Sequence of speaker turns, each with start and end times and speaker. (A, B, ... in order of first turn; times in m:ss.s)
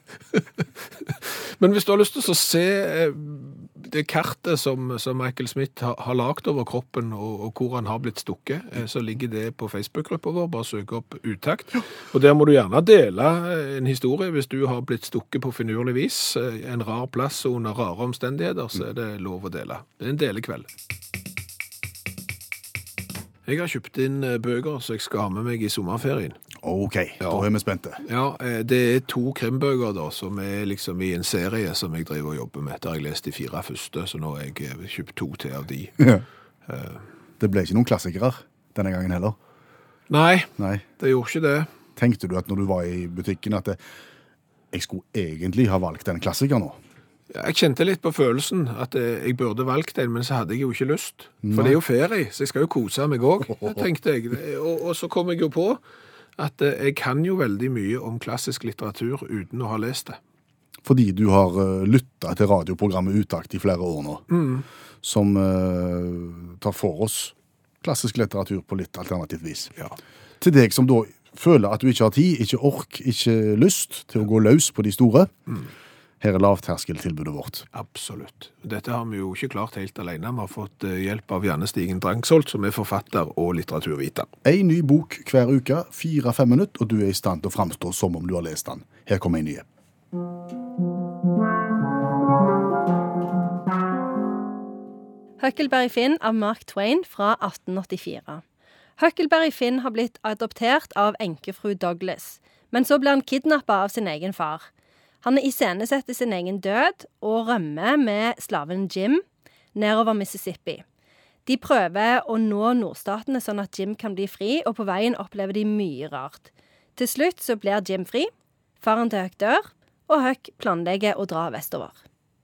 0:01.2-0:20.7 A
0:23.5-0:26.4 A
0:26.6-0:28.0 B
0:28.0-0:36.1 A
0:36.7-0:37.0 A
0:37.4-0:39.4 B
0:40.1-0:41.7 A
0:40.6-0:40.8 B
0:42.0-0:43.8 B
0:44.7-0:46.8 B
0:47.3-0:55.8 A
0:51.4-0:51.8 B
0:56.4-1:00.2 A
1:00.8-1:04.2 B
1:04.3-1:04.6 A
1:05.0-1:09.7 B
1:10.4-1:15.3 B
1:16.2-1:17.7 B
1:17.7-1:24.3 A
1:24.4-1:29.6 B
1:35.4-1:38.4 C
1:39.0-1:44.7 C
1:45.2-1:50.8 C
1:51.5-1:58.3 C
1:58.8-2:02.0 C